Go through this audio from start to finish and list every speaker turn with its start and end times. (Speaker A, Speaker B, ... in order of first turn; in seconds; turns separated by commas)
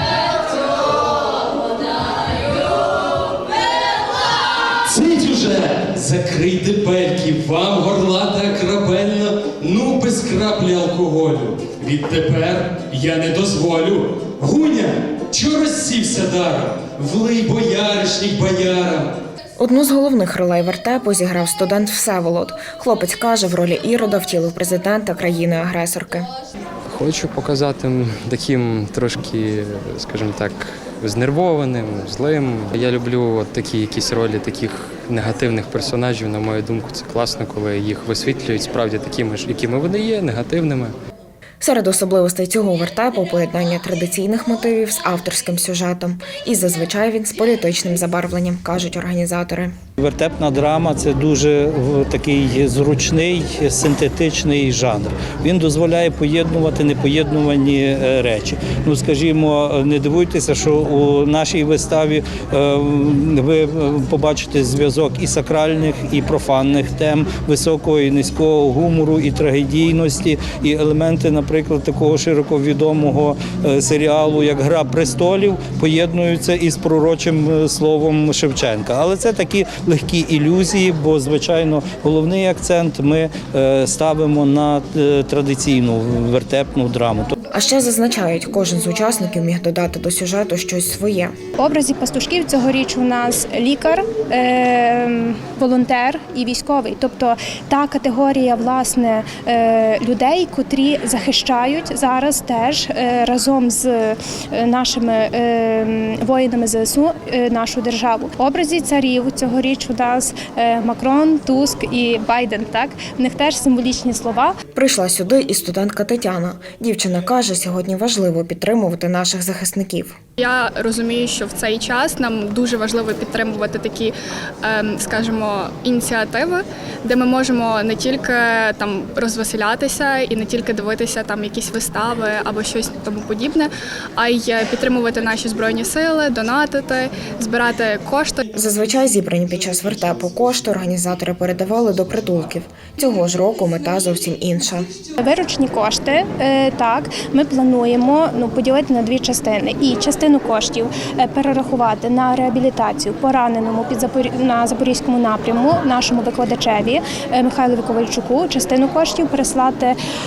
Speaker A: 4.8-19.1, Speaker B: 19.6-26.3, Speaker C: 26.9-41.0, Speaker B: 41.6-49.7, Speaker D: 50.0-87.4, Speaker B: 87.5-91.3, Speaker E: 91.6-114.5, Speaker B: 114.8-120.2, Speaker F: 120.4-138.4, Speaker B: 138.5-144.9, Speaker E: 145.2-160.0